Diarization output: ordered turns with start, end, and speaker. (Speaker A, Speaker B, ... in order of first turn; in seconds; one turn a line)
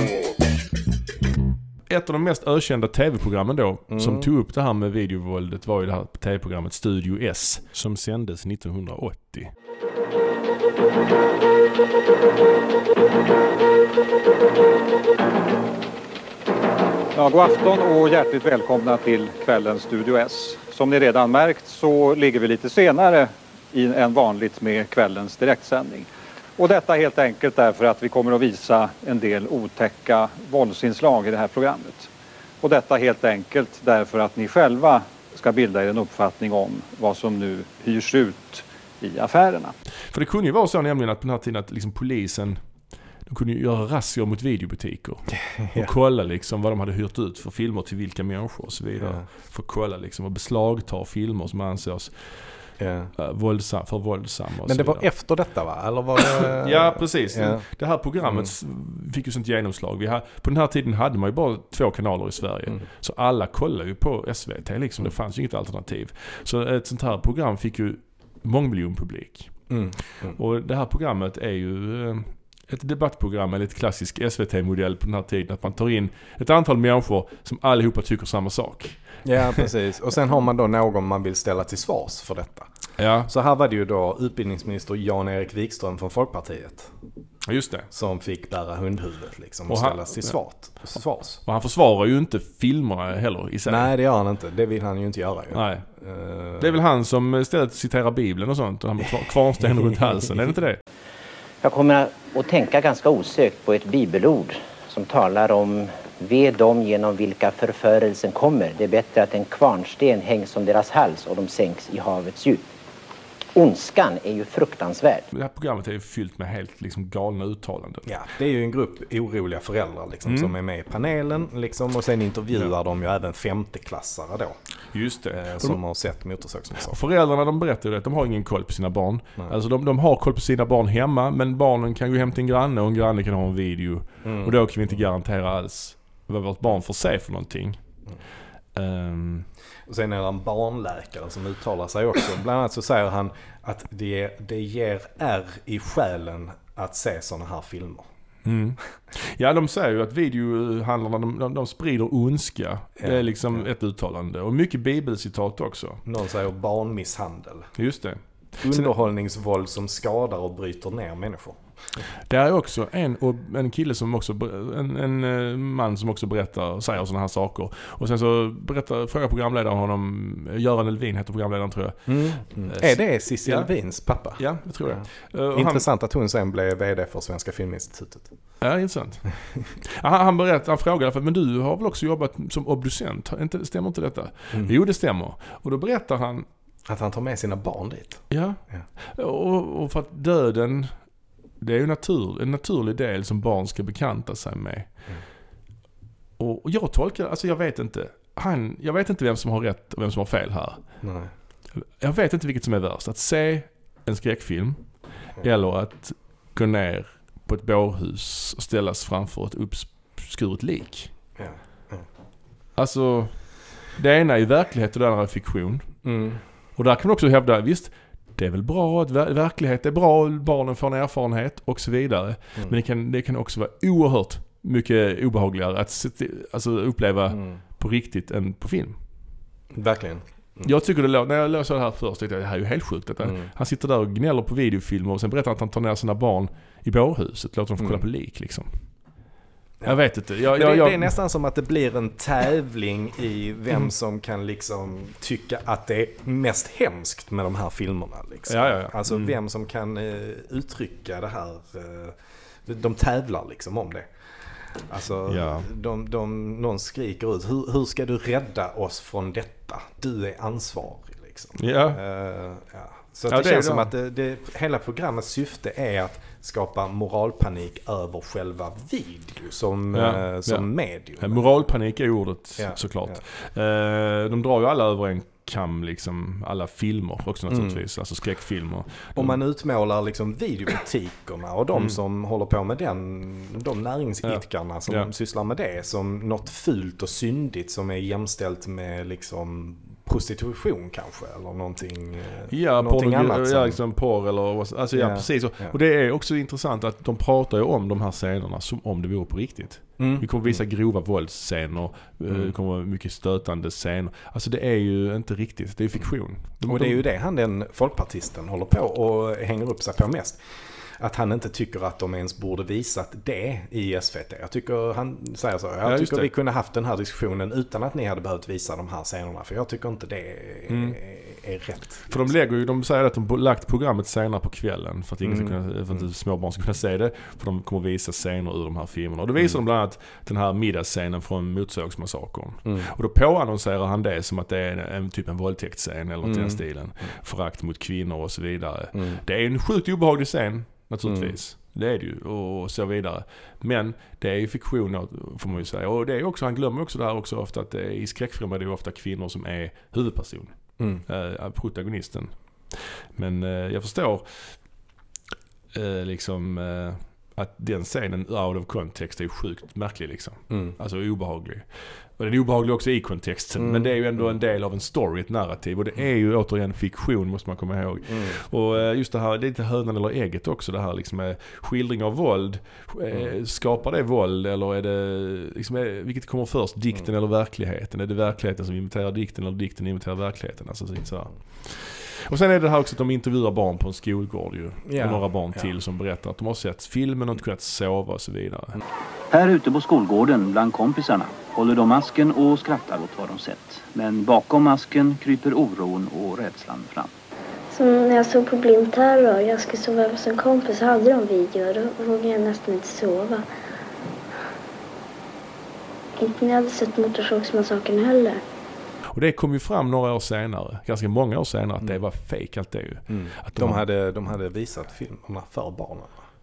Speaker A: 1.9-9.5
Speaker B: 3.9-4.3
Speaker C: 17.1-32.1
Speaker C: 32.6-39.8
Speaker A: 40.1-42.6
Speaker A: 43.3-52.6
Speaker B: 45.3-45.9
Speaker B: 49.0-49.3
Speaker B: 52.8-53.1
Speaker A: 53.2-55.1
Speaker B: 54.7-57.6
Speaker A: 56.2-69.8
Speaker B: 58.2-58.5
Speaker B: 69.7-70.4
Speaker A: 70.3-79.0
Speaker B: 79.2-82.7
Speaker A: 83.0-83.3
Speaker B: 83.3-86.9
Speaker A: 87.5-87.9
Speaker B: 87.9-91.4
Speaker A: 89.7-90.4
Speaker A: 91.4-93.9
Speaker B: 93.7-96.8
Speaker A: 95.5-95.9
Speaker A: 96.6-100.8
Speaker D: 101.6-112.7
Speaker D: 113.5-115.3
Speaker A: 115.3-118.0
Speaker B: 118.1-124.6
Speaker A: 120.3-120.5
Speaker A: 124.9-125.8
Speaker B: 125.3-127.0
Speaker A: 126.9-137.8
Speaker B: 134.2-134.6
Speaker A: 138.8-139.5
Speaker B: 139.9-148.1
Speaker A: 148.4-156.0
Speaker B: 153.0-153.7
Speaker B: 156.1-157.7
Speaker A: 157.8-158.9
Speaker B: 158.6-161.6
Speaker A: 162.3-173.7
Speaker B: 172.1-178.3
Speaker A: 174.3-175.8
Speaker A: 178.6-186.5
Speaker B: 186.9-188.9
Speaker A: 188.3-191.0
Speaker A: 191.6-194.9
Speaker A: 196.4-200.8
Speaker B: 201.0-201.3
Speaker A: 201.7-211.1
Speaker B: 211.4-212.1
Speaker A: 212.8-216.0
Speaker B: 216.0-216.4
Speaker A: 216.8-229.0
Speaker B: 227.3-227.6
Speaker B: 229.7-230.7
Speaker A: 230.6-238.7
Speaker B: 233.2-233.5
Speaker B: 237.8-238.1
Speaker B: 239.8-254.1
Speaker A: 239.8-241.1
Speaker A: 248.5-249.3
Speaker B: 254.7-271.5
Speaker A: 255.3-255.7
Speaker A: 261.6-262.0
Speaker A: 263.3-263.9
Speaker A: 269.9-270.7
Speaker A: 271.2-279.4
Speaker B: 272.6-273.2
Speaker B: 277.5-277.8
Speaker B: 279.1-293.8
Speaker A: 284.2-285.1
Speaker A: 292.5-307.0
Speaker B: 294.9-295.8
Speaker B: 300.0-300.6
Speaker B: 306.7-310.4
Speaker B: 311.0-322.3
Speaker A: 315.9-316.3
Speaker A: 320.7-321.0
Speaker A: 322.1-354.6
Speaker B: 325.2-326.0
Speaker B: 336.2-336.6
Speaker B: 338.9-339.2
Speaker B: 341.1-341.4
Speaker B: 350.8-351.0
Speaker A: 355.7-388.8
Speaker B: 360.5-360.8
Speaker B: 363.6-364.3
Speaker B: 368.1-368.4
Speaker B: 384.9-385.7
Speaker E: 389.3-397.1
Speaker F: 397.7-403.4
Speaker F: 406.2-408.4
Speaker A: 409.1-413.8
Speaker B: 413.1-416.2